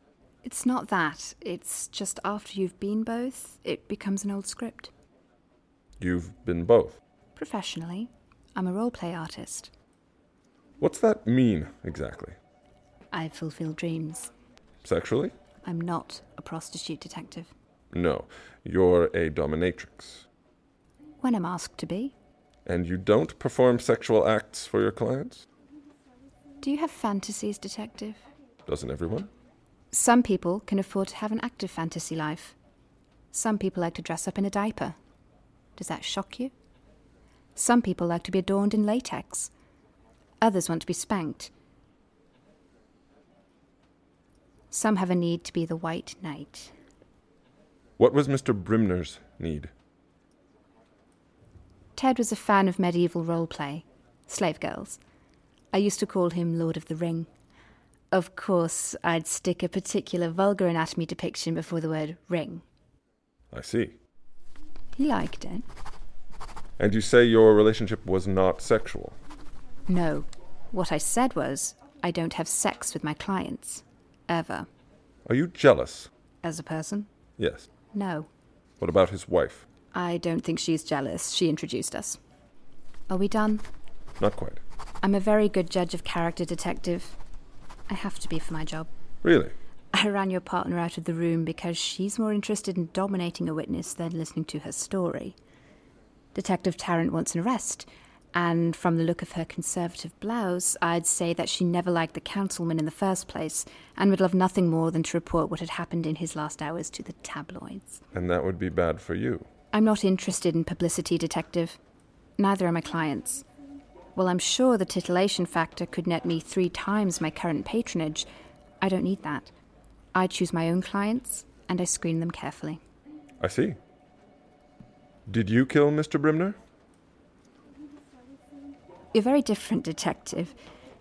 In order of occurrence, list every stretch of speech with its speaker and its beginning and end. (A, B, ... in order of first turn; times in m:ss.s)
0:00.4-0:04.9 A
0:06.0-0:07.0 B
0:07.4-0:09.7 A
0:10.8-0:12.4 B
0:13.1-0:14.3 A
0:14.8-0:15.3 B
0:15.6-0:17.5 A
0:17.9-0:20.2 B
0:21.2-0:22.1 A
0:22.6-0:25.4 B
0:26.6-0:28.2 A
0:28.6-0:29.3 B
0:29.9-0:32.5 A
0:33.3-0:35.0 A
0:35.8-0:36.5 A
0:37.6-0:39.5 A
0:40.4-0:41.5 A
0:44.7-0:46.7 A
0:48.0-0:49.7 B
0:52.0-0:55.0 A
0:55.7-0:57.3 A
0:58.1-1:02.6 A
1:03.5-1:04.0 B
1:04.9-1:05.6 A
1:06.8-1:09.2 B
1:09.9-1:14.7 A
1:15.2-1:16.1 B
1:16.4-1:17.1 A
1:17.4-1:17.7 B
1:17.9-1:18.3 A
1:18.8-1:19.6 B
1:19.9-1:22.2 A
1:23.1-1:23.6 A
1:24.2-1:24.6 B
1:25.0-1:27.2 A
1:27.9-1:28.9 A
1:29.2-1:29.5 B
1:29.9-1:35.3 A
1:36.3-1:48.0 A
1:48.1-1:49.5 B
1:49.7-1:51.8 A
1:52.4-1:53.4 A
1:54.1-1:58.3 A
1:58.8-1:59.5 A
2:00.1-2:02.8 A
2:03.4-2:03.8 B
2:05.3-2:06.6 B
2:09.1-2:10.6 A